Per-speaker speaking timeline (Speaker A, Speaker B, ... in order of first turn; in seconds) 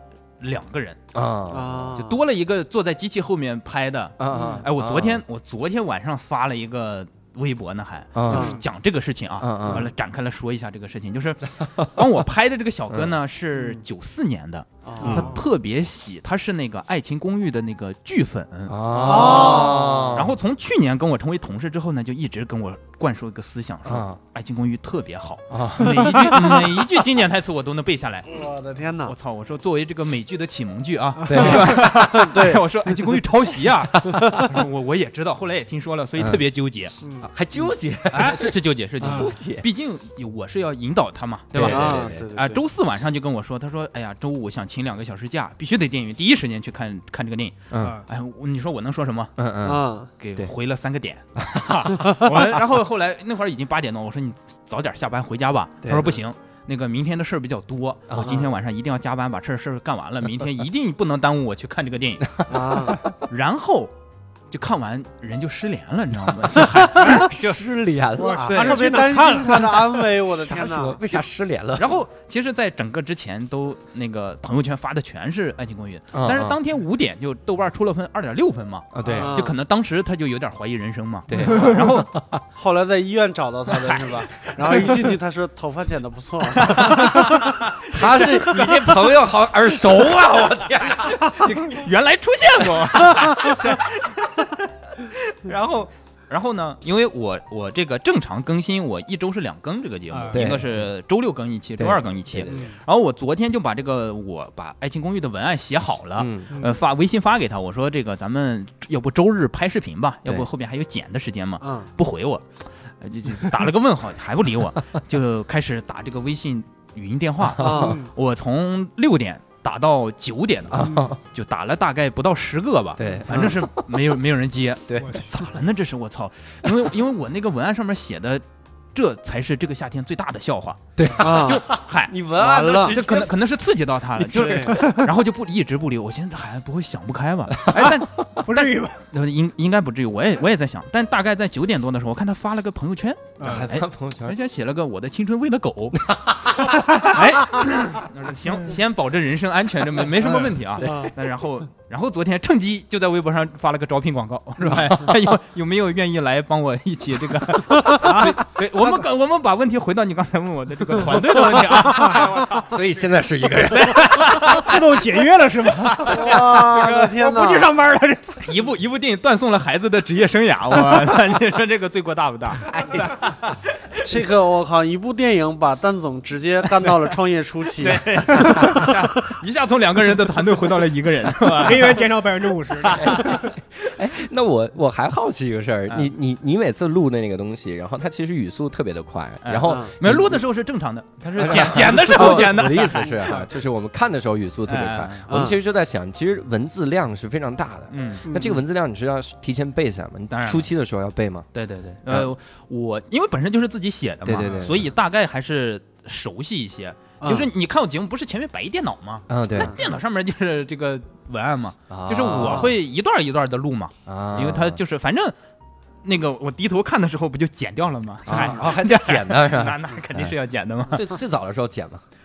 Speaker A: 0.4-1.0, 1.9-28.4, 29.0-36.9, 38.1-49.3, 50.2-62.4, 63.1-63.9, 64.5-67.6, 68.5-68.8, 71.8-82.1, 83.7-84.9, 86.5-88.3, 91.0-128.4, 128.9-132.1, 132.8-162.7, 163.7-164.8, 165.8-166.6, 168.4-174.1, 177.8-182.1, 182.7-183.4, 189.4-193.3, 194.7-195.3, 197.9-198.3, 200.3-200.7, 201.5-215.3, 216.0-221.1
Speaker B: 1.1-1.9, 4.2-5.2, 8.1-8.6, 9.4-9.9, 15.0-15.3, 18.7-20.3, 23.8-24.2, 25.5-26.6, 31.3-31.8, 34.0-34.4, 37.2-39.6, 41.5-42.2, 47.7-48.0, 49.4-49.8, 51.4-51.7, 55.8-56.2, 58.1-58.3, 66.9-68.5, 70.3-71.9, 76.1-76.6, 78.9-79.4, 81.3-82.4, 87.9-91.5, 100.3-100.9, 101.8-102.7, 106.2-106.5, 117.6-117.9, 120.7-121.2, 123.0-123.9, 124.9-125.2, 130.9-133.3, 137.6-138.3, 143.4-144.3, 145.9-147.1, 150.8-151.1, 154.6-155.1, 162.7-164.2, 172.7-173.3, 183.0-190.4, 191.3-201.5, 204.2-204.9, 209.3-209.8, 211.9-212.7, 214.1-214.8, 218.2-220.3, 220.9-222.0
Speaker C: 1.5-2.2, 8.3-8.6, 14.8-15.4, 18.9-20.1, 28.3-29.1, 31.3-32.6, 34.0-34.5, 39.0-39.3, 41.5-42.6, 49.6-50.1, 52.0-52.3, 58.2-58.5, 62.5-63.0, 68.3-71.0, 79.1-79.5, 82.5-88.9, 93.2-93.5, 111.6-111.9, 117.6-118.0, 123.3-123.6, 131.2-131.6, 132.3-133.0, 134.2-134.9, 150.8-151.1, 157.7-158.0, 161.5-162.2, 166.1-167.7, 174.0-179.0, 189.6-189.9, 192.8-193.5, 195.3-195.6, 207.2-207.5, 209.6-209.8, 212.3-212.7, 218.3-218.6
Speaker D: 15.0-15.3, 31.2-31.6, 68.2-70.0, 100.1-100.5, 117.7-118.1, 125.0-125.4, 134.8-135.0, 138.4-139.0, 143.4-143.7, 150.2-150.5, 158.0-159.0, 161.8-162.3, 164.3-168.4, 181.5-183.5, 198.3-198.6